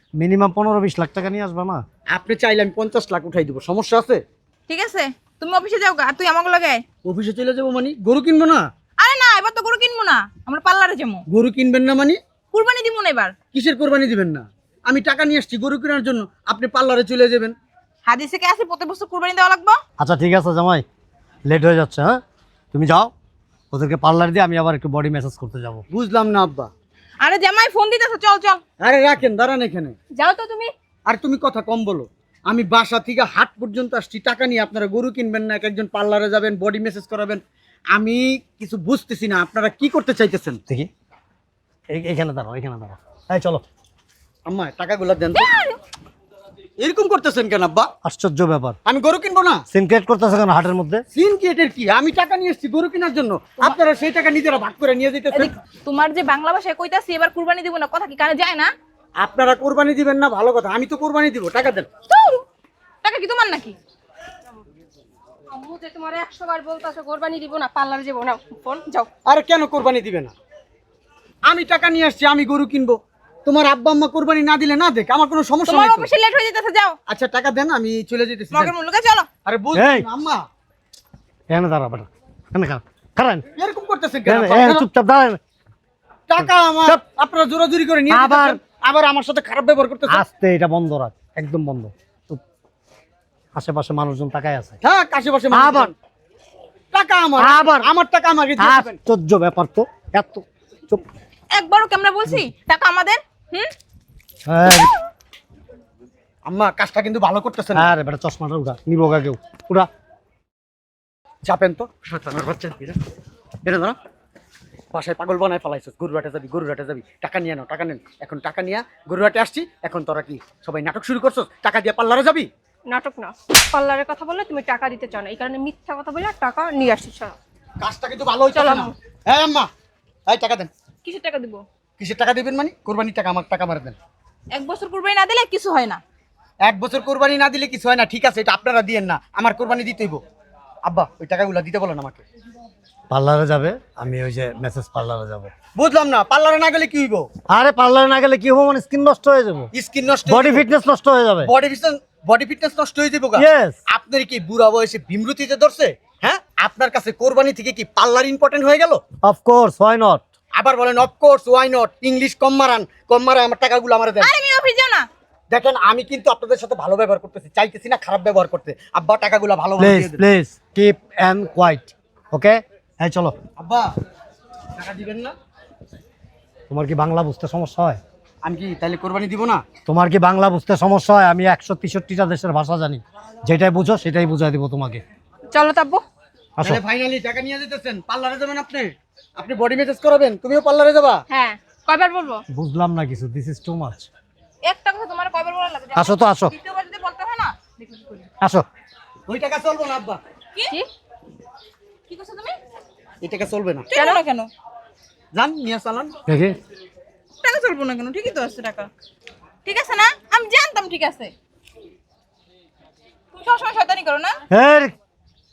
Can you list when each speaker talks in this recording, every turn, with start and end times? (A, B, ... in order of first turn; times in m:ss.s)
0:00.2-0:01.8 A
0:02.1-0:04.2 B
0:04.7-0:06.8 C
0:07.0-0:08.6 B
0:09.0-0:11.2 C
0:11.3-0:12.2 B
0:12.5-0:13.4 C
0:13.5-0:17.6 B
0:18.1-0:19.8 C
0:20.0-0:20.8 A
0:21.5-0:22.2 A
0:22.7-0:23.1 A
0:23.7-0:25.8 A
0:25.9-0:26.7 B
0:27.2-0:28.6 C
0:28.8-0:30.0 B
0:30.2-0:30.7 D
0:31.1-0:37.4 B
0:38.0-0:40.6 B
0:41.9-0:43.6 A
0:44.5-0:45.6 B
0:46.8-0:47.9 B
0:48.0-0:48.8 A
0:48.9-0:49.6 B
0:49.7-0:51.0 A
0:51.1-0:55.5 B
0:55.3-0:58.7 C
0:59.2-1:01.9 B
1:02.1-1:02.4 C
1:03.0-1:03.8 C
1:05.5-1:09.1 D
1:09.3-1:10.4 B
1:11.5-1:16.1 B
1:15.7-1:17.0 C
1:17.1-1:18.7 B
1:18.5-1:19.3 C
1:19.4-1:20.4 B
1:19.7-1:20.1 A
1:21.5-1:23.5 A
1:23.6-1:24.9 B
1:24.3-1:25.4 A
1:26.3-1:30.2 B
1:26.4-1:27.0 A
1:28.1-1:28.6 A
1:30.1-1:32.4 A
1:33.6-1:34.8 A
1:34.8-1:35.9 B
1:35.5-1:35.9 A
1:36.9-1:39.0 B
1:37.4-1:37.9 A
1:38.6-1:41.0 A
1:41.5-1:43.7 C
1:44.5-1:44.9 A
1:46.5-1:47.9 B
1:47.8-1:49.9 A
1:51.4-1:53.0 B
1:53.6-1:54.0 B
1:54.9-2:02.5 B
2:02.9-2:07.4 D
2:07.8-2:09.7 B
2:08.5-2:08.9 D
2:10.3-2:10.7 B
2:11.0-2:11.6 C
2:12.0-2:14.0 B
2:14.5-2:16.0 C
2:16.6-2:20.2 B
2:20.9-2:22.2 B
2:23.1-2:25.5 A
2:25.8-2:27.3 B
2:27.5-2:29.7 A
2:29.7-2:30.6 B
2:30.3-2:31.5 A
2:31.4-2:39.0 B
2:33.4-2:33.8 A
2:39.2-2:40.2 A
2:40.6-2:44.3 B
2:44.2-2:45.1 C
2:45.5-2:50.2 B
2:49.8-2:53.4 A
2:53.6-2:53.9 B
2:54.8-2:55.4 B
2:56.7-2:58.0 A
2:58.4-2:59.6 B
2:59.9-3:05.0 A
3:05.5-3:06.0 D
3:06.6-3:11.2 B
3:11.3-3:12.4 D
3:12.5-3:14.1 A
3:14.6-3:18.3 C
3:16.0-3:16.5 A
3:19.3-3:20.2 B
3:22.1-3:22.6 C
3:23.2-3:23.9 B
3:23.9-3:24.5 C
3:24.0-3:24.2 D
3:25.4-3:26.1 B
3:26.3-3:26.6 A
3:27.4-3:28.9 C
3:29.6-3:31.3 C
3:33.3-3:34.4 C
3:34.5-3:35.0 A